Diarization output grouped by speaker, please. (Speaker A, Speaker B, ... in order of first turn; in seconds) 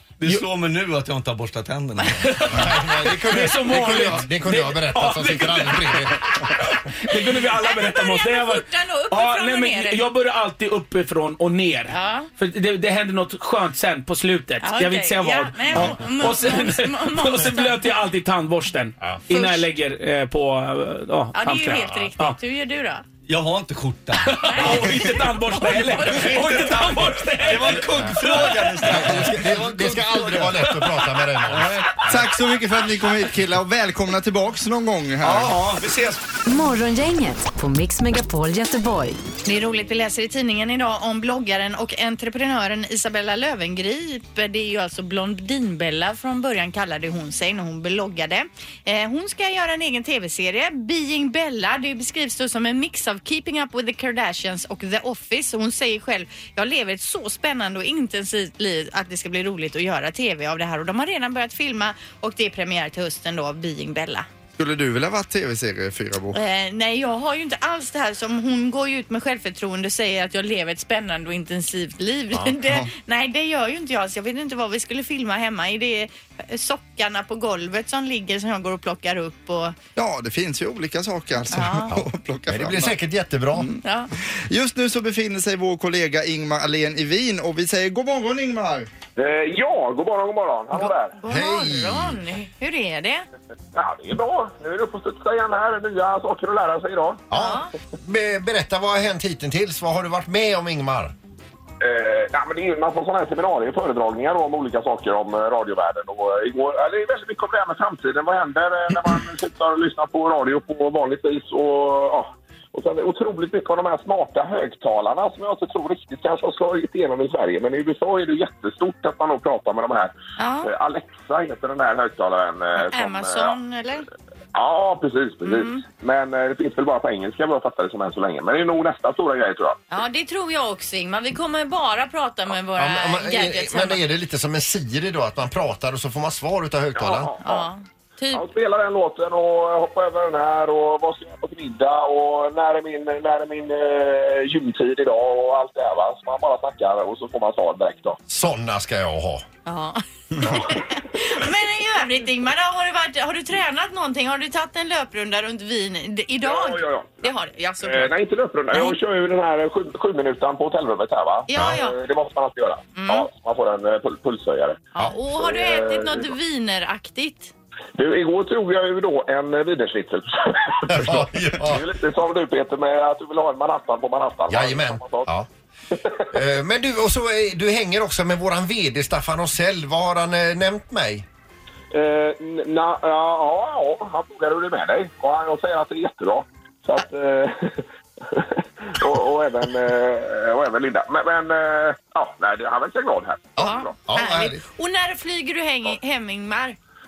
Speaker A: 0.2-2.3, 23.2-30.9, 35.2-36.2
Speaker B: 2.1-22.4, 24.2-29.1
Speaker C: 2.5-6.4, 28.9-32.3, 81.9-83.7, 91.3-92.2, 97.3-101.1, 132.7-137.3, 148.3-149.4, 150.4-150.6, 161.5-161.8, 170.9-171.9, 174.5-175.5, 176.3-181.3, 193.6-194.6
Speaker D: 7.5-10.0, 11.9-12.3, 14.6-17.9, 19.3-19.6, 21.3-23.0, 24.4-26.7, 39.4-64.2, 66.3-79.7, 81.5-81.9, 83.8-84.1, 90.8-93.2, 97.3-97.7, 120.4-120.7, 122.8-124.1, 125.4-125.8, 129.9-134.0, 137.4-138.5, 149.7-158.1, 158.7-159.0, 161.5-162.0, 162.9-163.3, 164.9-167.5, 193.6-196.8
Speaker E: 32.0-35.6, 64.6-66.4, 80.0-83.0, 83.5-83.8, 84.5-88.9
Speaker F: 36.5-39.2
Speaker G: 89.2-91.2, 93.7-97.2, 101.8-123.5, 124.5-129.8, 136.9-137.7, 138.3-148.2, 156.4-157.3, 157.8-166.3, 168.0-175.3, 181.9-193.9